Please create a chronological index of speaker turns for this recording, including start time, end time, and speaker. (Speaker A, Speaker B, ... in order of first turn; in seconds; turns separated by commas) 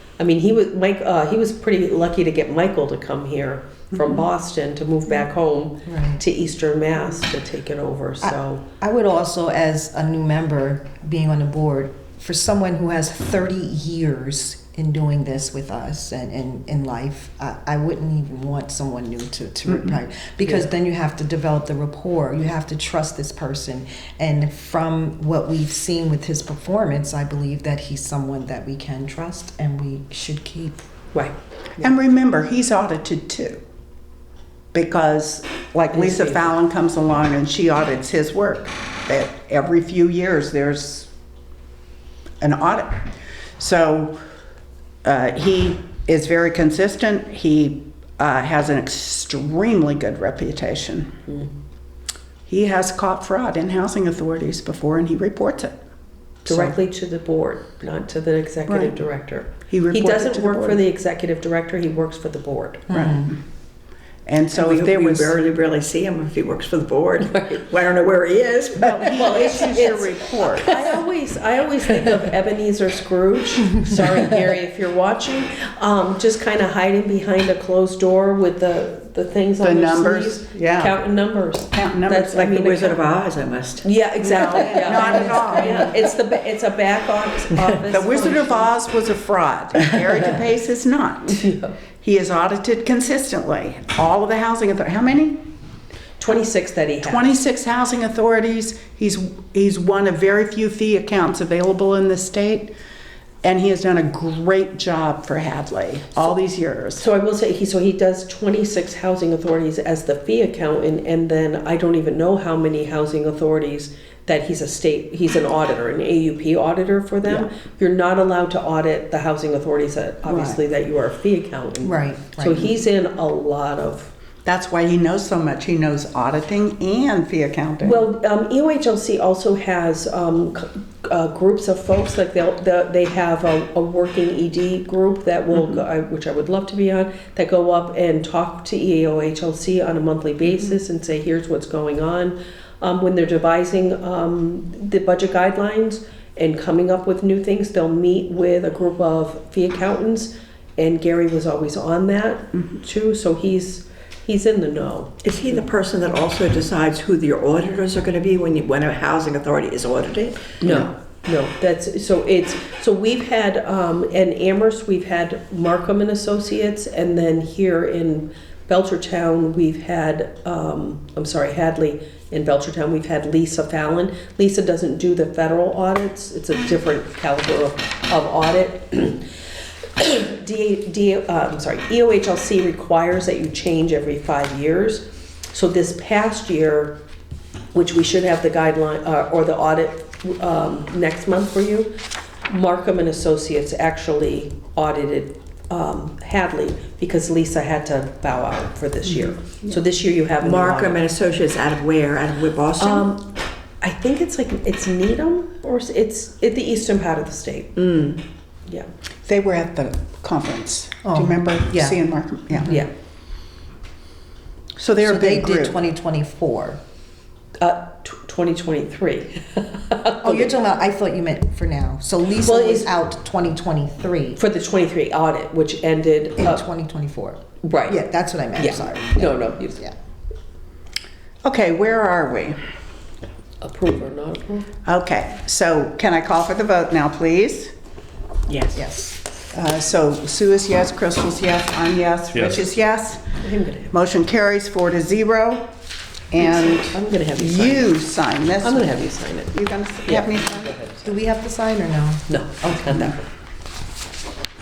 Speaker A: 0.2-8.6, Speaker B: 3.9-4.2, Speaker C: 5.8-6.2, Speaker C: 8.2-30.8, Speaker A: 31.1-31.9, Speaker B: 31.8-33.6, Speaker B: 34.7-41.1, Speaker A: 35.9-36.5, Speaker B: 42.4-44.1, Speaker B: 45.0-51.1, Speaker B: 52.5-55.8, Speaker B: 56.5-56.8, Speaker A: 56.5-62.9, Speaker B: 58.7-59.0, Speaker B: 59.7-60.8, Speaker C: 62.9-63.3, Speaker B: 62.9-63.3, Speaker B: 64.2-65.4, Speaker D: 64.5-70.0, Speaker B: 68.8-70.7, Speaker A: 69.1-83.0, Speaker B: 79.6-81.0, Speaker B: 81.7-82.4, Speaker D: 82.3-86.1, Speaker A: 83.8-88.7, Speaker B: 84.3-85.9, Speaker B: 87.9-91.5, Speaker A: 91.3-91.7, Speaker B: 92.0-95.4, Speaker A: 96.2-97.4, Speaker B: 97.0-102.7, Speaker B: 103.4-107.0, Speaker A: 107.0-124.1, Speaker B: 120.2-120.6, Speaker C: 121.8-122.7, Speaker B: 124.4-128.0, Speaker A: 127.8-155.1, Speaker D: 155.2-160.8, Speaker A: 160.6-179.3, Speaker A: 180.0-187.0, Speaker A: 187.7-191.9, Speaker A: 192.5-201.0, Speaker D: 200.4-203.1, Speaker A: 202.8-207.9, Speaker D: 207.8-208.2, Speaker B: 209.2-212.8, Speaker C: 211.0-212.0, Speaker C: 212.5-212.8, Speaker B: 214.8-215.8, Speaker C: 215.0-216.8, Speaker A: 217.6-220.5, Speaker C: 220.2-224.4, Speaker A: 222.4-222.9, Speaker A: 224.4-226.6, Speaker C: 226.4-229.9, Speaker A: 227.6-228.0, Speaker A: 228.6-229.8, Speaker B: 231.4-232.6, Speaker A: 233.6-234.7, Speaker B: 234.8-237.7, Speaker D: 238.5-238.8, Speaker C: 238.7-239.2, Speaker B: 239.5-243.4, Speaker A: 243.4-243.9, Speaker B: 243.9-245.7, Speaker B: 246.3-248.9, Speaker A: 246.4-247.9, Speaker A: 248.6-251.1, Speaker B: 249.5-250.8, Speaker C: 251.0-253.1, Speaker A: 252.3-253.2